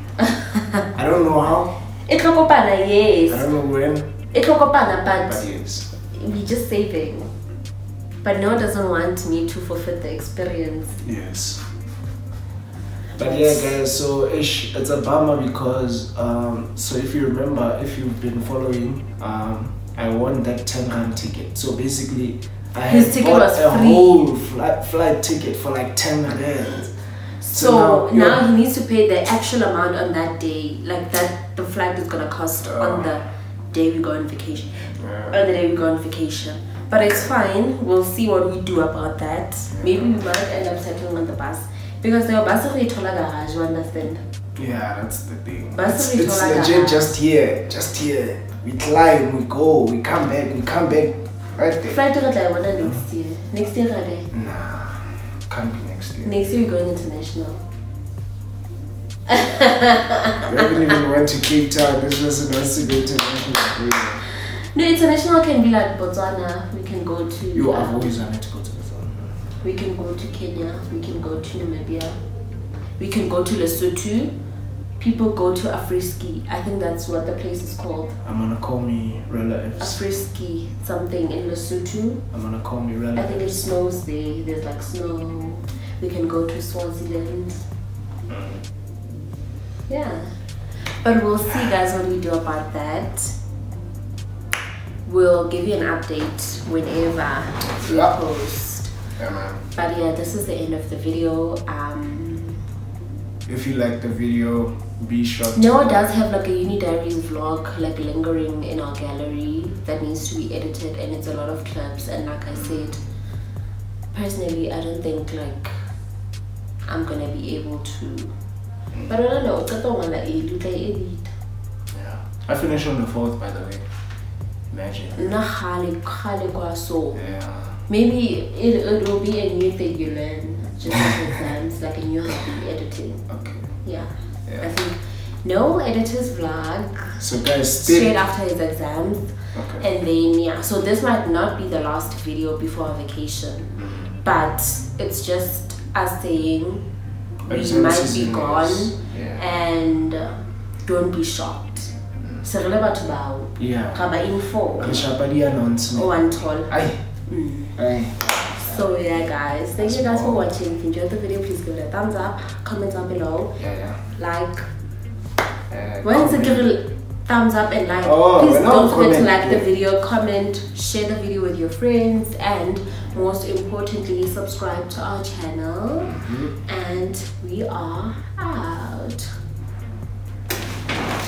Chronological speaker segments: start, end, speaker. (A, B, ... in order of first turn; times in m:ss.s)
0:00.2-0:00.8 A
0:00.9-0:01.8 B
0:02.0-0:03.5 A
0:03.3-0:04.1 B
0:04.3-0:05.4 A
0:05.3-0:05.9 B
0:06.1-0:07.3 A
0:08.2-0:11.0 A
0:11.0-0:11.6 B
0:13.2-0:13.7 A
0:13.2-0:28.4 B
0:22.9-0:24.3 A
0:27.5-0:44.2 A
0:32.6-0:33.2 B
0:35.0-0:35.4 B
0:39.7-0:40.2 B
0:44.6-0:52.0 B
0:45.7-0:47.1 A
0:51.8-0:54.3 A
0:54.3-0:56.4 B
0:56.2-0:57.6 A
0:59.3-1:00.9 A
1:00.4-1:04.2 B
1:04.4-1:08.3 A
1:07.5-1:09.4 B
1:09.6-1:12.2 A
1:13.0-1:14.3 A
1:15.0-1:18.2 A
1:18.2-1:20.0 B
1:19.8-1:22.2 A
1:22.3-1:23.6 B
1:23.2-1:27.6 A
1:28.3-1:28.6 B
1:29.9-1:30.3 A
1:31.0-1:33.4 A
1:35.0-1:39.0 A
1:37.8-1:38.2 B
1:39.2-1:39.7 B
1:39.8-1:42.6 A
1:43.5-1:46.0 B
1:45.5-1:53.0 A
1:52.5-1:52.9 B
1:54.1-1:55.8 A
1:56.9-1:58.3 A
1:59.1-2:01.3 A
2:01.9-2:03.9 B
2:04.7-2:05.3 B
2:05.1-2:07.3 A
2:07.2-2:07.8 B
2:07.9-2:13.3 A
2:13.3-2:13.7 B
2:13.8-2:17.2 A
2:17.2-2:18.2 B
2:17.8-2:26.8 A
2:19.5-2:19.8 B
2:23.8-2:24.1 B
2:27.5-2:29.4 B
2:27.5-2:35.1 A
2:32.2-2:32.4 B
2:33.6-2:34.0 B
2:34.8-2:37.0 B
2:35.9-2:37.8 A
2:37.8-2:38.8 B
2:38.6-2:43.6 A
2:39.8-2:40.5 B
2:43.6-2:44.0 B
2:44.1-2:44.7 A
2:45.7-2:46.7 B
2:46.0-2:59.4 A
2:48.0-2:49.7 B
2:56.0-2:56.5 B